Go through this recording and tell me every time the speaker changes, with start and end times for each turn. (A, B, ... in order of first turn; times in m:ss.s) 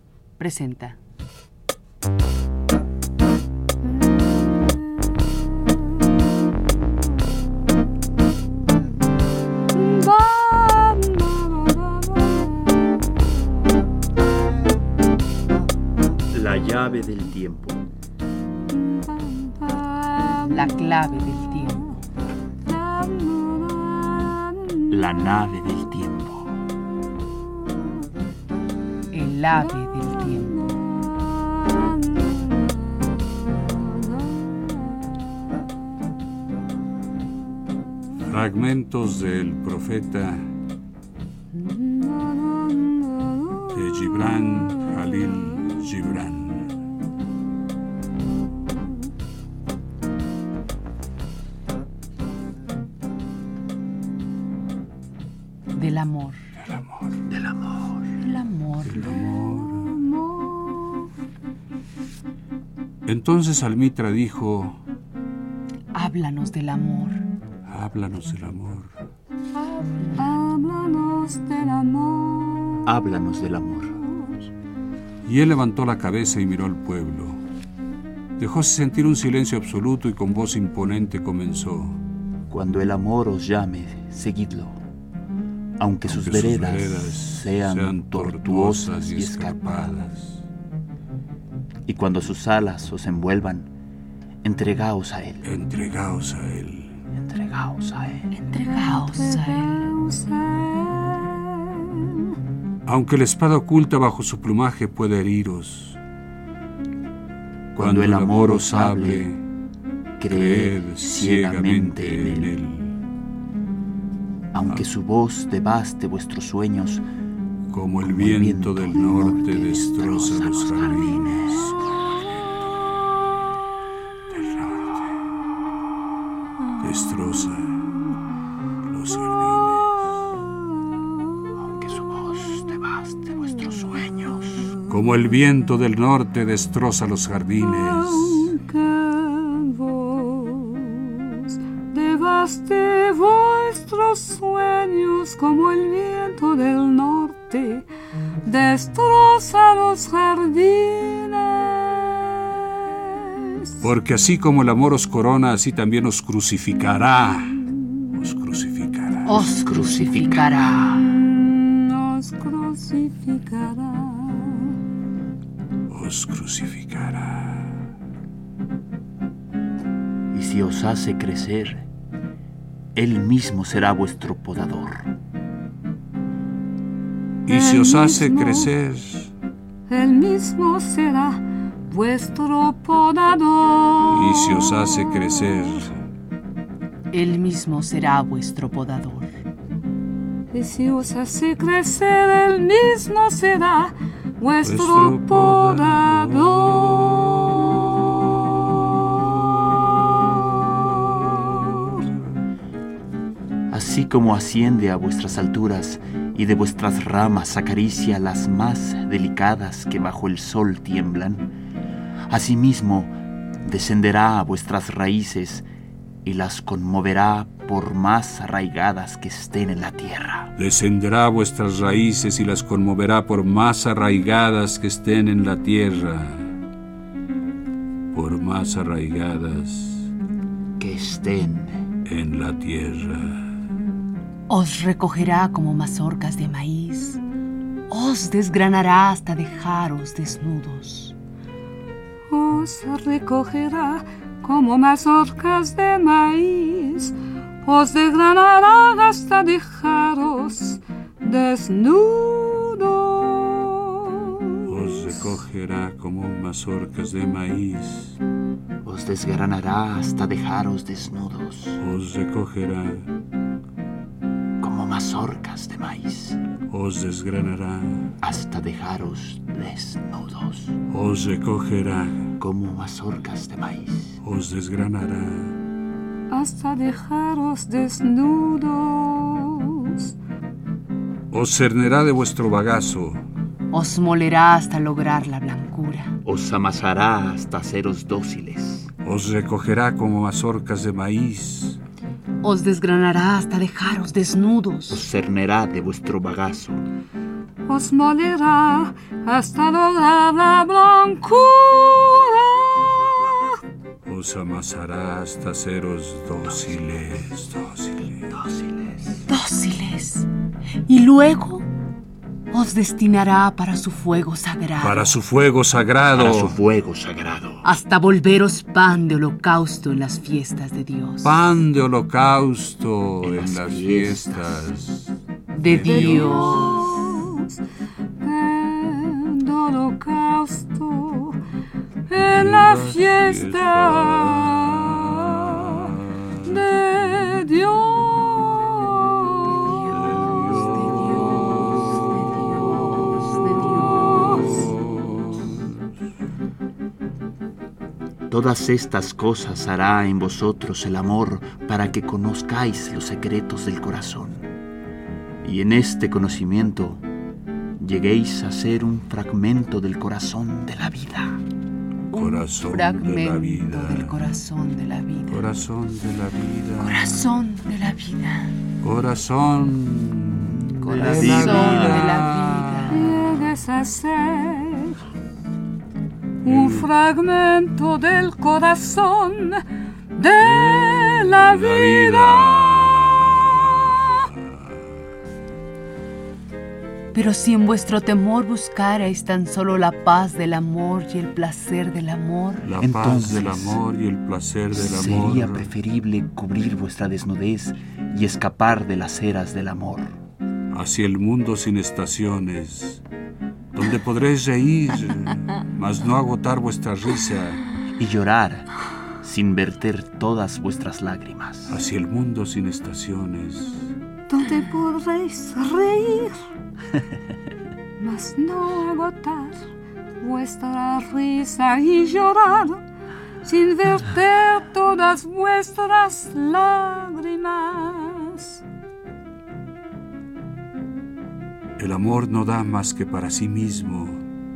0:00.4-0:01.0 A
0:09.7-0:13.3 B
0:16.3-0:17.8 C
0:18.7-0:20.8 B
0:20.5-0:22.0 A
0:22.6-0:24.9 B
0:24.9-0:26.5 C
0:29.1-0:30.6 A
0:30.5-0:32.7 B
0:33.7-0:34.5 B
0:38.2-0:40.4 D
0:41.5-0:43.8 B
0:43.7-0:46.7 D
0:55.7-0:56.4 A
0:56.6-0:57.2 D
0:57.3-0:58.1 C
0:58.2-0:59.0 A
0:58.8-0:59.9 D
0:59.5-1:01.1 B
1:03.0-1:04.8 D
1:05.9-1:07.2 A
1:07.7-1:08.9 D
1:10.0-1:12.9 B
1:12.8-1:14.0 C
1:15.2-1:17.4 D
1:18.4-1:22.0 D
1:22.5-1:24.8 C
1:25.8-1:30.1 C
1:26.1-1:30.4 D
1:31.8-1:33.7 C
1:34.4-1:35.5 C
1:35.4-1:37.0 D
1:37.1-1:38.3 C
1:38.3-1:39.9 A
1:38.9-1:42.4 B
1:42.8-1:46.0 D
1:47.7-1:49.2 C
1:47.8-1:49.4 D
1:50.2-1:52.5 C
1:50.2-1:53.0 D
1:54.5-1:57.0 C
1:57.7-2:02.6 D
1:58.0-2:01.7 C
2:04.3-2:05.1 D
2:06.8-2:08.0 D
2:08.9-2:10.0 D
2:11.6-2:14.8 C
2:14.9-2:18.5 D
2:17.6-2:27.9 B
2:28.4-2:33.8 B
2:33.8-2:39.4 D
2:39.2-2:41.0 A
2:39.3-2:41.0 C
2:40.8-2:44.8 B
2:45.9-2:47.8 D
2:50.3-2:51.9 C
2:52.9-2:55.1 C
2:57.4-2:59.3 D
2:57.5-2:58.7 B
2:59.9-3:05.9 B
3:04.1-3:06.0 D
3:07.1-3:09.3 A
3:10.5-3:18.0 B
3:14.6-3:17.5 D
3:21.5-3:22.0 D
3:23.7-3:31.5 C
3:32.3-3:35.6 C
3:36.2-3:40.5 C
3:40.6-3:46.5 D
3:48.1-3:50.1 D
3:50.8-3:51.8 C
3:52.0-3:53.4 D
3:54.5-3:57.2 A
3:57.9-4:01.2 A
4:02.3-4:14.7 B
4:14.6-4:18.2 D
4:18.8-4:21.8 C
4:21.8-4:23.1 D
4:24.6-4:26.4 C
4:26.7-4:28.1 D
4:28.2-4:30.7 C
4:30.9-4:32.2 D
4:32.4-4:34.2 C
4:34.2-4:35.6 D
4:36.3-4:40.1 B
4:41.3-4:43.2 D
4:43.7-4:46.2 A
4:46.2-4:48.9 C
4:49.0-4:51.8 D
4:52.4-4:55.0 A
4:54.9-4:56.8 C
4:57.7-5:03.6 B
5:04.0-5:08.3 D
5:08.3-5:09.2 C
5:09.3-5:10.3 A
5:10.9-5:11.7 A
5:12.5-5:15.1 A
5:14.8-5:16.5 D
5:16.1-5:17.7 C
5:17.6-5:21.6 A
5:21.2-5:25.1 D
5:23.2-5:24.7 C
5:25.5-5:27.0 A
5:25.6-5:26.8 D
5:25.8-5:27.5 B
5:28.2-5:31.4 B
5:32.1-5:35.9 B
5:32.3-5:36.6 D
5:36.4-5:39.6 B
5:39.5-5:40.0 A
5:39.9-5:42.3 D
5:41.1-5:41.4 A
5:42.3-5:43.8 A
5:44.2-5:44.6 B
5:44.4-5:45.8 D
5:48.3-5:54.5 C
5:55.4-5:57.0 C
5:57.8-6:01.4 C
6:02.1-6:05.4 A
6:02.1-6:04.2 D
6:05.3-6:07.2 D
6:06.8-6:08.5 A
6:08.8-6:12.9 D
6:10.8-6:13.1 A
6:10.8-6:12.2 C
6:12.9-6:15.0 B
6:16.4-6:19.6 B
6:16.4-6:16.9 D
6:20.1-6:22.6 B
6:20.4-6:24.8 D
6:27.1-6:32.7 A
6:32.6-6:35.7 D
6:32.8-6:33.8 C
6:34.7-6:40.2 C
6:40.7-6:43.0 D
6:43.7-6:47.6 D
6:48.0-6:48.7 C
6:49.2-6:51.8 C
6:51.7-6:53.9 D
6:54.3-6:56.4 B
6:58.0-6:59.6 B
7:00.2-7:02.8 B
7:03.4-7:08.6 B
7:11.8-7:14.2 D